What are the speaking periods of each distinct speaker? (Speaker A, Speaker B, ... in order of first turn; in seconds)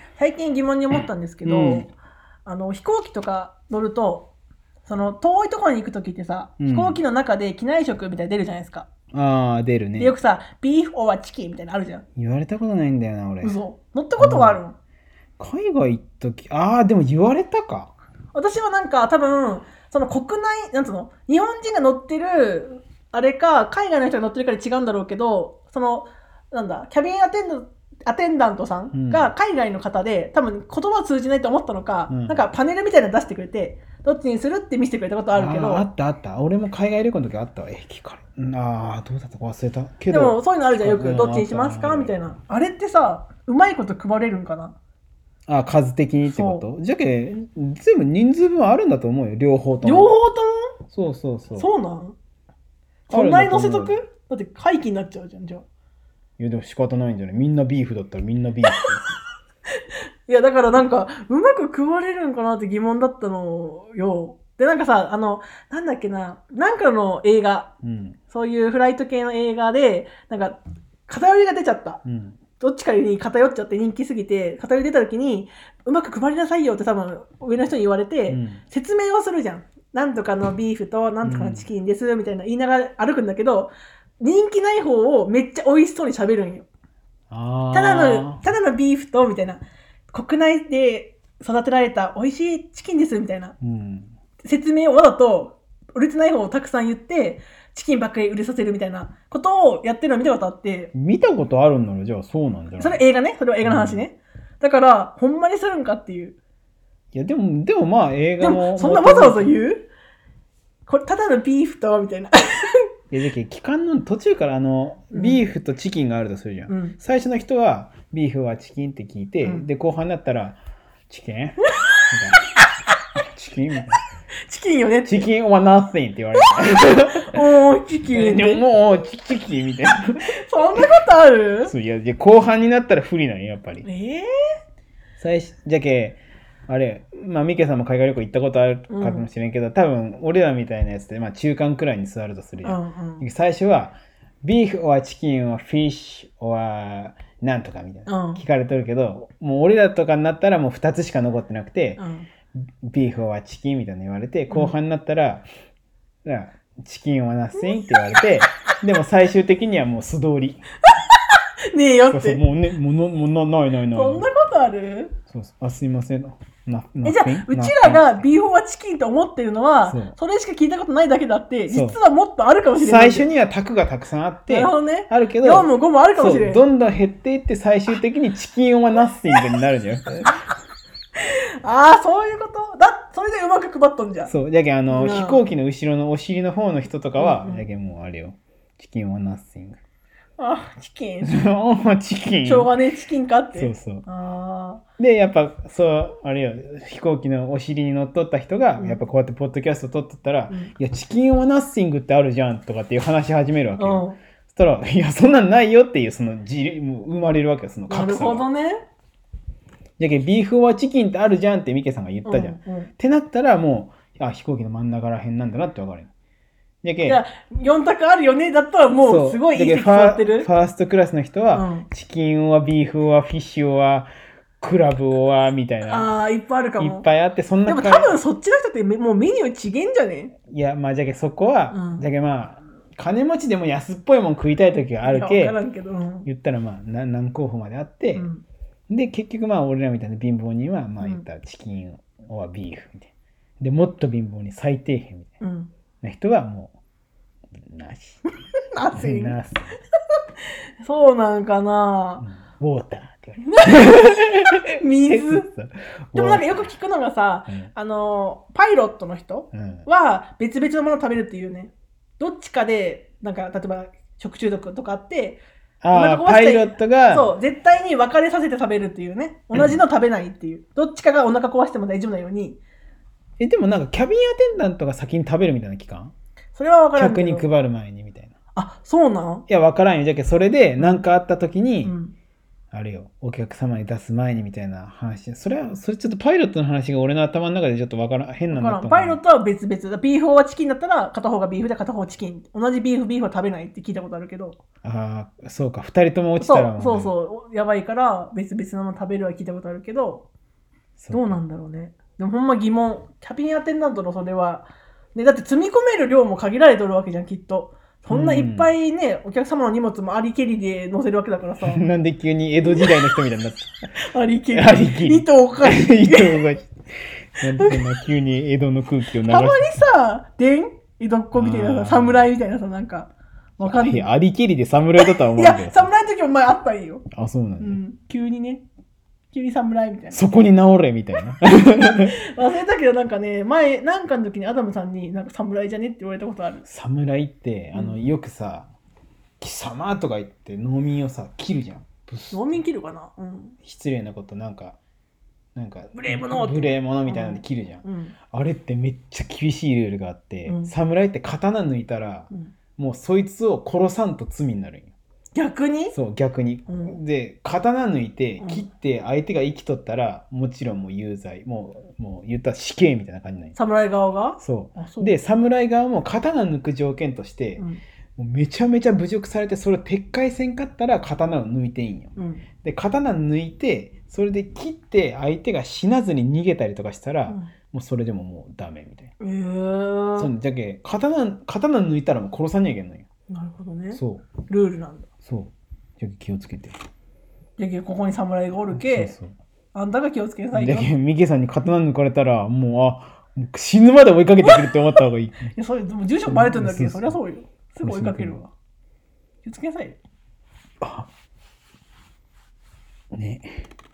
Speaker A: 0.2-4.3, 4.8-8.9, 10.0-12.0, 13.4-14.8, 18.3-35.9, 40.1-44.8, 46.3-46.6, 49.8-50.7, 51.5-52.2, 53.1-55.6, 59.8-67.7, 68.3-72.0, 72.6-86.7, 87.7-93.6, 94.4-100.9, 102.8-106.4, 108.4-109.9, 110.9-112.8, 115.1-115.4, 116.7-117.0, 124.5-125.3, 127.2-128.7, 130.3-131.7, 133.8-134.3, 138.9-139.3, 142.6-143.2, 148.1-148.4, 152.0-152.3, 154.5-154.7, 160.9-161.2, 161.7-162.4, 163.9-165.2, 167.1-173.3, 174.5-176.7, 181.6-184.3, 184.9-185.4, 187.2-187.7, 190.4-191.4, 192.4-194.8, 198.8-199.0, 203.8-204.2, 207.9-208.8, 212.2-212.9, 217.1-220.5, 221.5-221.9, 225.9-227.1, 227.7-230.3, 231.7-232.0, 235.0-236.3, 238.1-238.4, 245.4-245.7, 248.7-249.4, 250.8-252.2, 253.4-255.5, 256.1-272.6, 276.6-277.5, 278.6-279.5, 280.8-281.1, 281.8-282.1, 288.5-294.6, 296.4-300.3, 301.1-311.8, 314.0-316.4, 317.6-317.8, 319.2-324.1, 325.0-327.1, 327.6-328.6, 329.3-330.2, 331.8-336.6, 337.7-338.0, 342.3-343.6, 345.9-348.1, 350.4-350.7, 355.4-355.9, 356.7-357.0, 363.6-365.1, 372.2-372.4, 379.2-380.3, 383.3-385.1, 387.6-389.1, 389.7-390.9, 394.4-394.7, 395.6-398.5, 399.4-400.0
Speaker B: 1.4-1.9, 6.6-7.0, 9.1-10.2, 12.2-13.6, 14.2-14.6, 15.4-17.9, 28.9-29.3, 32.1-32.4, 35.3-42.1, 45.5-50.1, 50.9-51.7, 53.1-54.0, 56.4-59.0, 67.8-68.2, 72.0-72.4, 78.3-78.6, 81.2-81.7, 87.3-88.4, 93.6-94.1, 100.9-103.0, 103.6-104.0, 107.1-109.5, 113.1-120.6, 121.1-122.4, 123.3-124.0, 125.0-127.4, 128.1-130.3, 131.6-133.9, 135.2-152.0, 152.8-155.5, 156.2-160.6, 162.1-164.3, 165.3-168.3, 169.8-170.2, 171.7-172.0, 172.8-180.3, 184.3-189.8, 191.2-192.7, 193.5-194.1, 195.0-208.5, 210.0-216.1, 216.8-217.2, 219.0-224.1, 224.6-226.1, 226.8-228.2, 230.5-235.6, 236.3-238.3, 238.9-245.4, 246.0-246.8, 247.6-248.2, 248.9-249.7, 252.2-256.6, 259.5-259.9, 265.8-267.3, 269.5-269.8, 273.4-276.1, 277.0-278.3, 279.5-281.9, 282.7-289.2, 294.8-297.1, 301.0-301.4, 308.1-308.7, 311.6-313.8, 314.5-316.8, 317.4-319.7, 321.3-322.3, 323.6-325.9, 327.1-327.8, 330.1-332.2, 336.7-338.7, 339.4-342.6, 343.6-344.8, 345.6-354.9, 355.9-363.6, 364.4-367.6, 368.2-379.1, 380.2-383.1, 383.9-384.3, 385.2-386.8, 388.7-389.3, 390.5-395.5, 396.3-397.2, 397.8-398.4, 400.8-401.1, 403.1-403.5